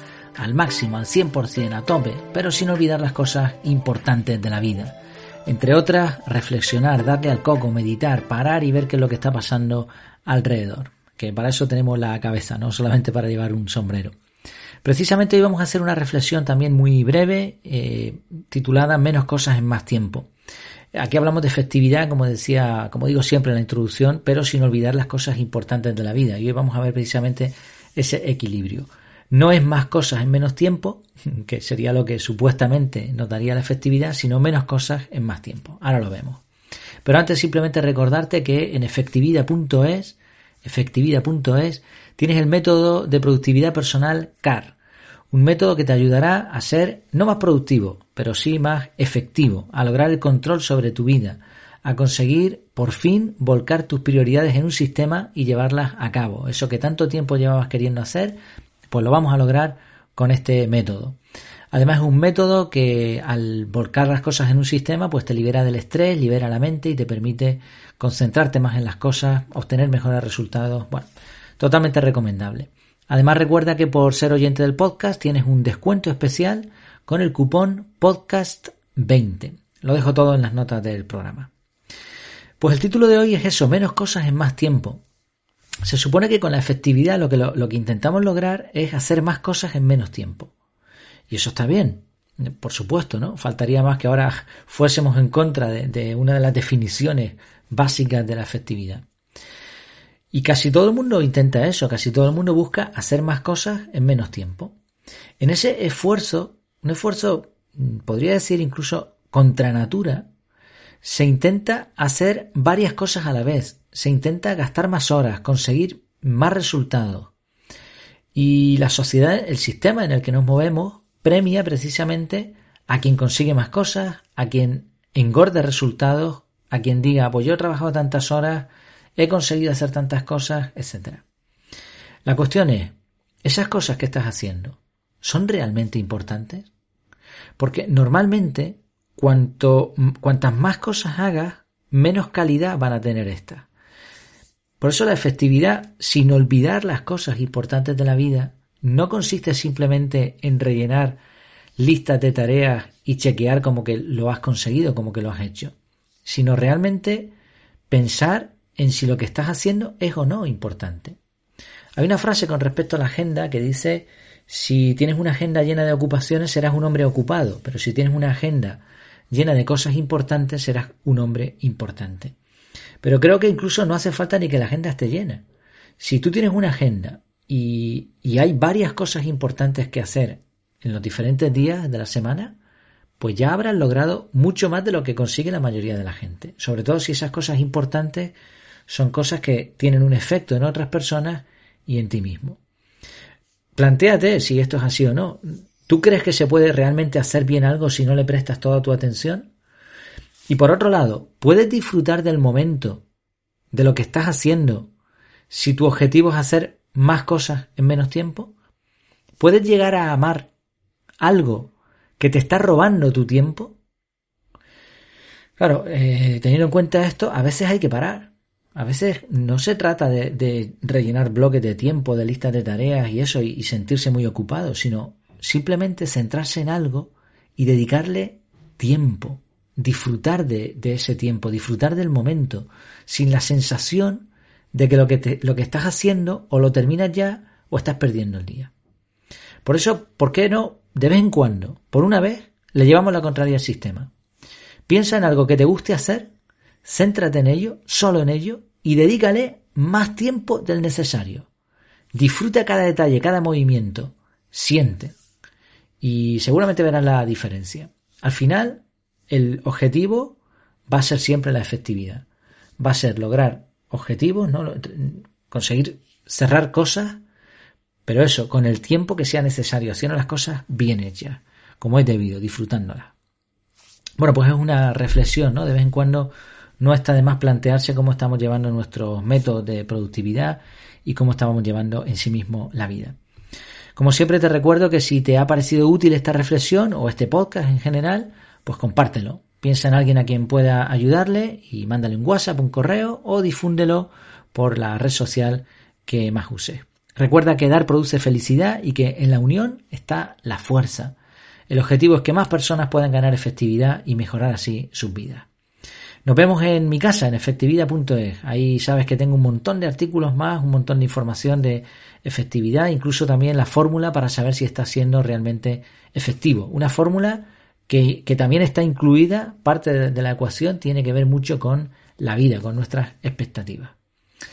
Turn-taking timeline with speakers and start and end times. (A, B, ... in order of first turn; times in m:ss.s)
0:00.4-0:14.1 A
0:14.8-0:20.3 A
0:20.9-0:36.4 A
0:37.0-0:44.8 A
0:45.3-0:58.4 A
0:58.9-1:01.2 A
1:01.7-1:11.1 A
1:11.6-1:21.5 A
1:22.6-1:25.0 A
1:25.8-1:30.5 A
1:31.3-1:39.0 A
1:40.3-1:44.8 A
1:45.4-1:50.3 A
1:51.0-1:57.3 A
1:58.3-2:11.2 A
2:12.2-2:16.7 A
2:17.6-2:23.7 A
2:24.8-2:31.2 A
2:31.8-2:37.3 A
2:37.9-2:41.2 A
2:42.0-2:52.4 A
2:53.0-2:55.4 A
2:56.0-3:02.6 A
3:03.2-3:08.3 A
3:08.9-3:12.6 A
3:13.8-3:19.5 A
3:20.5-3:23.0 A
3:23.7-3:24.9 A
3:25.5-3:28.5 A
3:29.4-3:30.5 A
3:31.2-3:33.8 A
3:35.6-3:58.7 A
3:59.6-4:04.1 A
4:04.9-4:06.3 A
4:06.8-4:11.5 A
4:12.1-4:15.2 A
4:16.0-4:22.2 A
4:22.8-4:27.2 A
4:28.1-4:33.1 A
4:34.2-4:43.2 A
4:44.0-5:01.2 A
5:01.7-5:05.5 A
5:06.2-5:24.0 A